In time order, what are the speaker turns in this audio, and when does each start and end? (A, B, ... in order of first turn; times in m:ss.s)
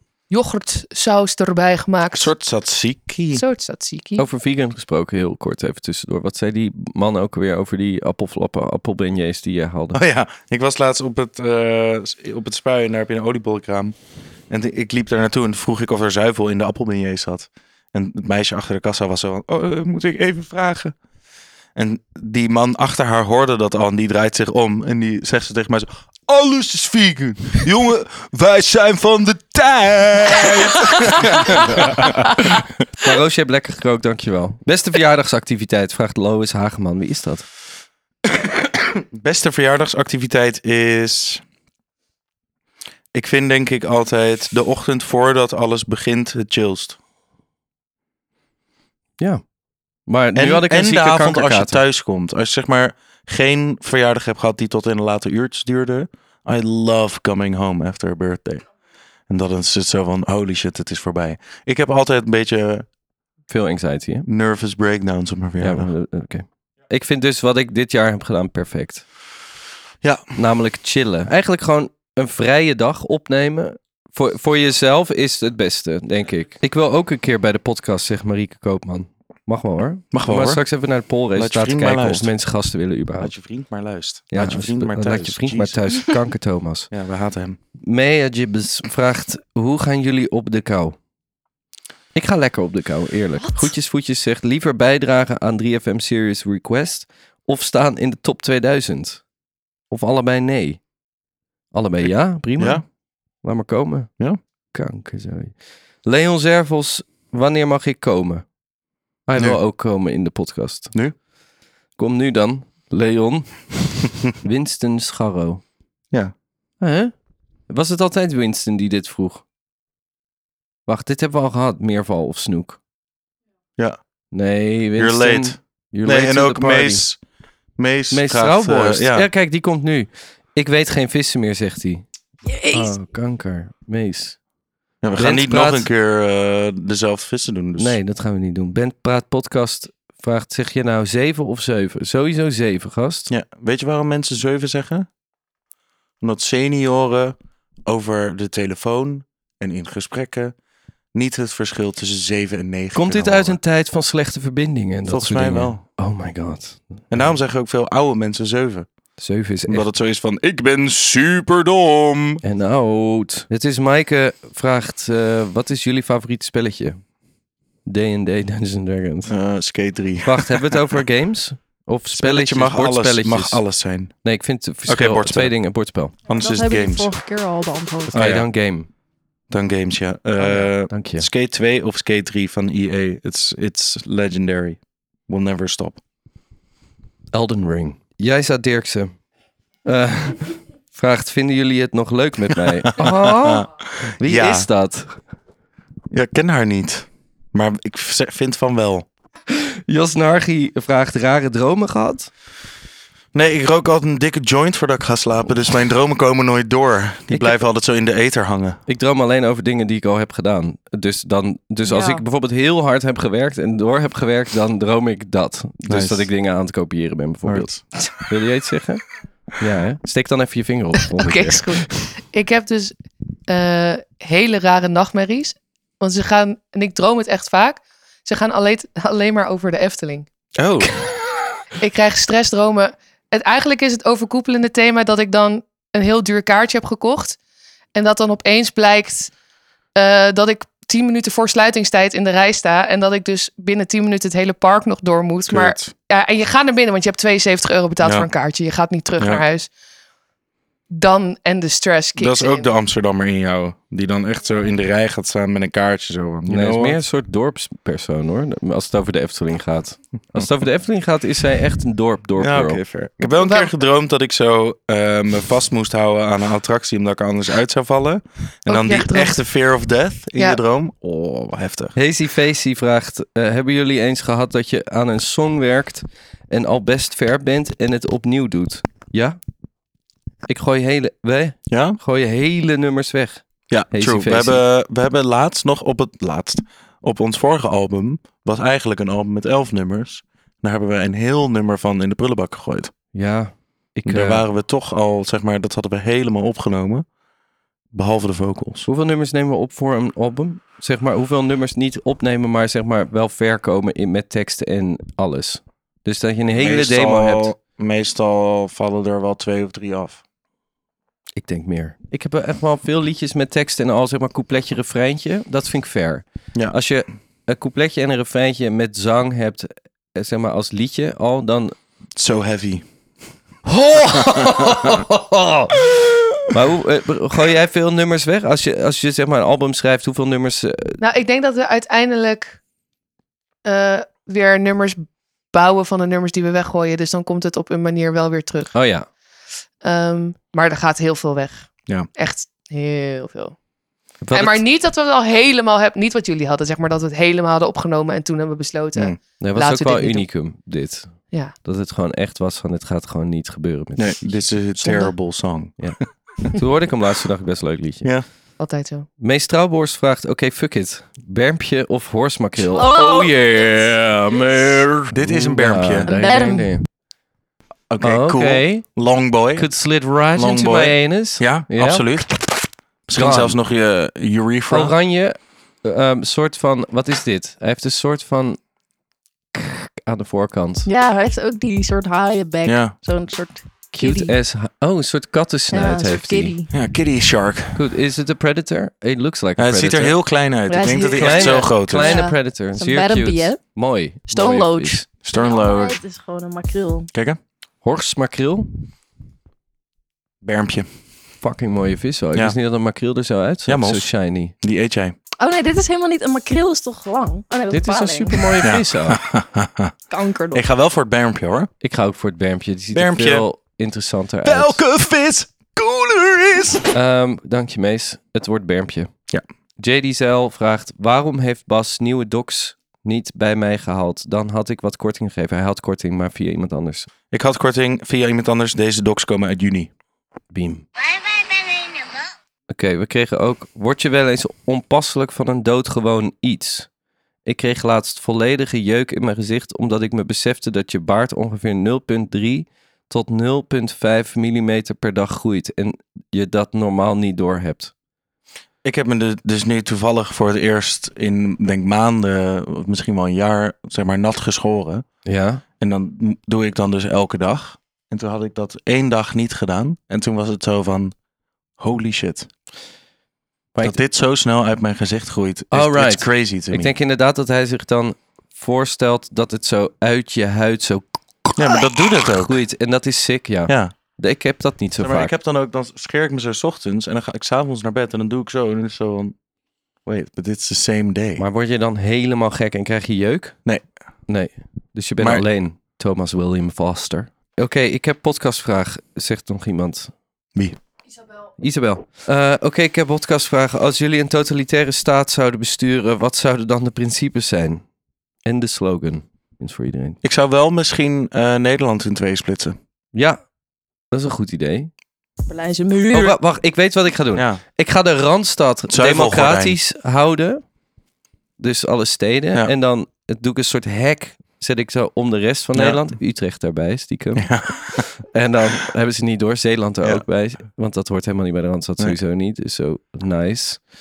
0:00.3-0:02.3 A
0:02.1-0:03.4 B
0:03.3-0:04.2 A
0:04.2-0:10.0 C
0:09.9-0:14.0 B
0:14.5-0:21.0 B
0:21.8-0:32.7 B
0:31.8-0:32.1 C
0:33.0-0:37.5 C
0:38.8-0:41.4 B
0:43.1-0:47.0 B
0:50.0-0:51.8 C
0:50.3-0:58.6 B
0:59.3-1:02.9 B
1:03.5-1:04.3 C
1:04.2-1:05.9 B
1:05.6-1:09.0 C
1:10.0-1:10.4 B
1:10.4-1:23.3 C
1:20.1-1:20.6 B
1:21.3-1:22.3 B
1:23.2-1:26.2 B
1:24.3-1:26.9 C
1:26.9-1:27.6 B
1:27.8-1:31.0 C
1:32.1-1:39.2 C
1:39.9-1:40.8 C
1:41.7-1:42.9 C
1:42.0-1:42.8 B
1:43.4-1:44.2 C
1:44.7-1:48.5 C
1:49.2-1:50.9 C
1:52.0-1:55.6 C
1:56.8-1:57.1 C
1:57.7-1:59.4 C
2:00.9-2:02.8 C
2:04.3-2:07.0 C
2:05.0-2:07.2 B
2:07.8-2:09.3 B
2:08.1-2:12.0 C
2:12.7-2:14.4 C
2:15.0-2:18.0 B
2:15.2-2:15.9 C
2:17.8-2:23.3 C
2:23.3-2:25.1 B
2:26.2-2:30.5 B
2:31.1-2:33.6 B
2:32.9-2:37.3 C
2:35.1-2:35.8 B
2:37.1-2:38.9 B
2:39.2-2:39.9 C
2:39.6-2:42.4 B
2:42.4-2:47.0 C
2:47.8-2:49.3 C
2:49.3-2:50.8 B
2:50.2-2:53.6 C
2:52.1-2:54.3 B
2:54.2-2:56.1 C
2:54.8-2:55.6 B
2:56.3-2:57.1 B
2:56.3-2:58.2 D
2:58.1-2:58.9 C
2:58.1-2:58.5 B
2:59.5-3:06.0 B
3:00.4-3:01.3 C
3:07.3-3:09.2 C
3:09.8-3:15.2 C
3:12.8-3:14.7 B
3:16.1-3:19.1 B
3:19.5-3:22.3 C
3:23.3-3:28.8 B
3:27.3-3:27.6 C
3:28.9-3:42.0 C
3:35.9-3:36.3 B
3:37.4-3:37.9 B
3:41.2-3:42.9 A
3:43.5-3:50.3 A
3:50.6-3:51.0 B
3:51.6-3:57.4 A
3:57.9-3:59.3 A
3:59.9-4:09.7 A
4:05.5-4:05.9 B
4:08.0-4:08.3 B
4:10.9-4:12.7 A
4:12.2-4:17.0 B
4:16.5-4:22.8 C
4:22.4-4:32.0 B
4:23.2-4:23.7 A
4:28.7-4:29.4 A
4:32.0-4:39.4 C
4:40.5-4:44.6 C
4:41.7-4:42.0 B
4:43.7-4:52.9 B
4:53.1-4:54.4 C
4:54.0-4:57.0 B
4:57.9-4:58.8 B
4:58.8-5:07.5 C
5:06.6-5:10.2 B
5:11.4-5:21.7 C
5:16.5-5:16.8 B
5:22.2-5:22.8 B
5:23.6-5:25.9 C
5:24.3-5:25.0 B
5:26.5-5:31.0 C
5:31.0-5:32.6 A
5:33.6-5:35.0 A
5:35.5-5:38.7 A
5:38.7-5:39.1 C
5:39.8-5:43.6 A
5:44.2-5:44.6 C
5:44.3-5:50.3 A
5:49.4-5:51.1 C
5:51.6-5:54.4 C
5:54.0-5:56.0 B
5:54.8-5:55.1 A
5:55.8-5:58.1 C
5:58.6-5:59.1 A
5:59.2-6:06.8 C
6:02.7-6:03.8 D
6:05.1-6:06.1 B
6:06.0-6:06.8 D
6:07.9-6:09.7 B
6:08.0-6:09.0 C
6:09.5-6:12.4 C
6:10.3-6:14.9 B
6:13.1-6:13.6 C
6:14.7-6:18.6 C
6:19.5-6:20.9 C
6:20.8-6:24.4 D
6:22.6-6:22.9 B
6:23.9-6:26.6 C
6:25.7-6:26.7 D
6:26.7-6:27.8 B
6:27.7-6:30.2 C
6:29.6-6:32.3 B
6:30.7-6:33.6 D
6:30.8-6:35.0 C
6:34.3-6:37.1 D
6:35.2-6:36.0 B
6:37.1-6:37.4 B
6:37.8-6:38.7 C
6:40.4-6:40.9 B
6:41.4-6:44.5 C
6:43.6-6:45.2 B
6:45.4-6:48.7 D
6:47.7-6:49.2 C
6:48.6-6:49.9 B
6:50.1-6:50.6 D
6:50.5-6:51.7 B
6:51.8-6:54.8 C
6:52.9-6:53.4 B
6:54.4-6:56.9 B
6:56.9-6:59.1 C
6:59.8-7:07.1 C
7:07.3-7:09.9 B
7:10.5-7:10.9 C
7:12.7-7:16.9 C
7:17.4-7:27.9 C
7:28.8-7:35.0 B
7:35.2-7:35.6 C
7:35.8-7:41.1 B
7:41.8-7:42.5 B
7:43.8-7:46.9 B
7:45.7-7:51.6 C
7:51.6-7:52.6 B
7:52.3-7:55.3 C
7:53.7-7:53.9 B
7:55.0-7:59.3 B
8:00.0-8:01.4 B
8:01.4-8:03.6 C
8:04.3-8:10.1 C
8:05.2-8:05.5 B
8:11.6-8:17.8 C
8:18.4-8:20.2 C
8:20.2-8:22.8 B
8:23.1-8:23.4 C
8:24.1-8:24.9 C
8:25.5-8:26.4 D
8:26.1-8:30.6 C
8:27.3-8:27.6 B
8:28.9-8:29.8 B
8:31.6-8:43.8 C
8:35.7-8:36.0 B
8:37.4-8:38.1 B